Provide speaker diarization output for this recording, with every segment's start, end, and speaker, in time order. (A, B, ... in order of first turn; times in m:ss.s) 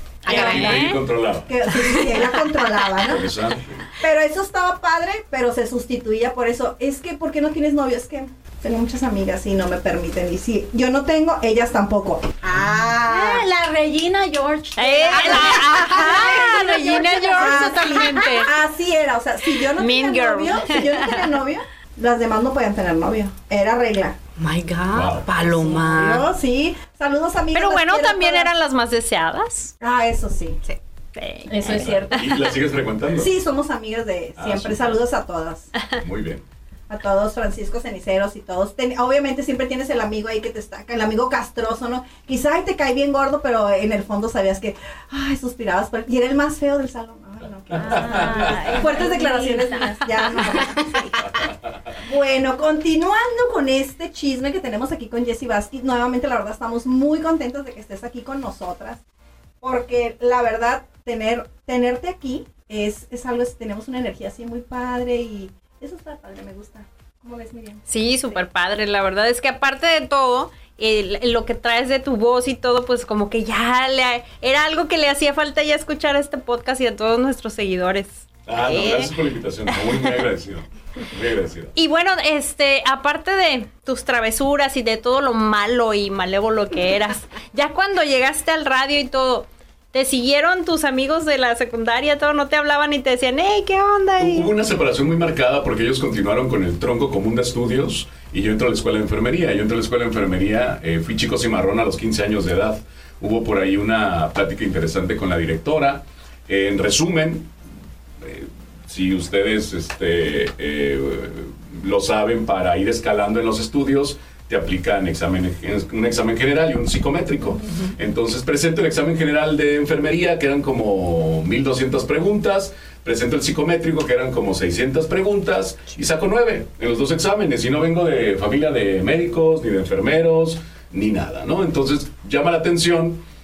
0:00.2-0:01.0 A
0:00.3-0:01.6 B
0:00.4-0:00.7 C
0:01.5-0:03.3 D
0:01.9-0:02.3 A
0:03.0-0:03.9 B
0:04.0-0:13.5 D
0:13.0-0:18.5 E
0:14.8-0:18.5 C
0:15.1-0:16.3 D
0:17.3-0:24.2 D
0:19.8-0:21.2 C
0:24.4-0:26.3 A
0:24.9-0:25.3 B
0:25.5-0:28.5 D
0:27.5-0:29.8 C
0:29.8-0:30.6 D
0:31.2-0:32.1 C
0:31.6-0:33.3 B
0:33.1-0:35.7 D
0:34.4-0:35.0 B
0:36.0-0:36.4 B
0:36.9-0:51.4 D
0:47.5-0:48.9 B
0:47.8-0:50.2 E
0:51.2-0:52.0 B
0:52.0-0:59.0 D
0:59.6-1:08.4 D
1:07.9-1:19.1 C
1:18.5-1:21.7 B
1:21.8-1:34.5 C
1:34.2-1:47.5 B
1:48.2-2:13.2 B